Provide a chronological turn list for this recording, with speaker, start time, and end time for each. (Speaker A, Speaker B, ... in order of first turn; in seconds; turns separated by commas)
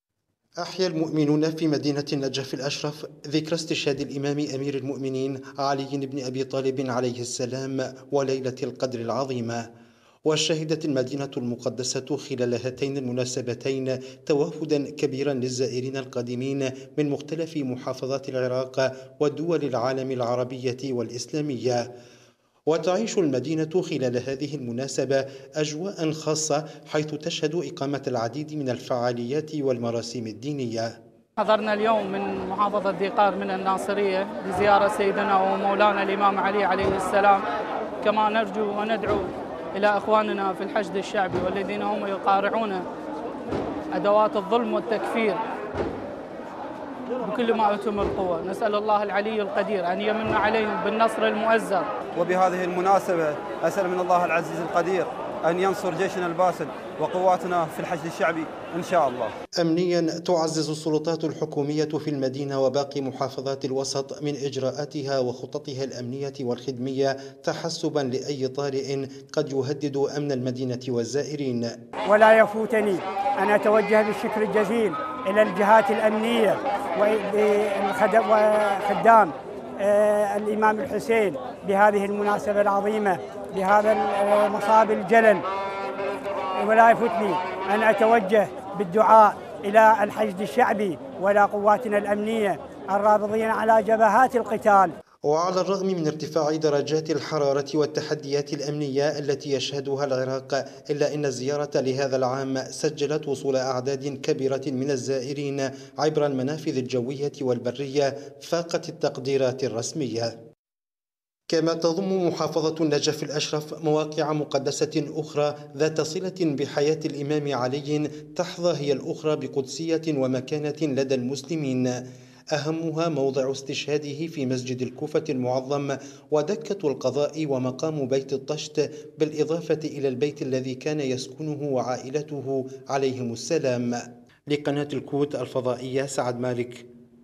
Speaker A: 0.6-9.7, Speaker A: 10.2-21.9, Speaker A: 22.7-30.9, Speaker B: 31.4-37.4, Speaker B: 38.0-42.9, Speaker B: 43.9-45.4, Speaker B: 47.2-51.9, Speaker C: 52.2-59.3, Speaker A: 59.6-71.7, Speaker D: 72.0-85.4, Speaker D: 86.6-94.9, Speaker A: 95.3-110.3, Speaker A: 111.5-122.0, Speaker A: 122.5-136.9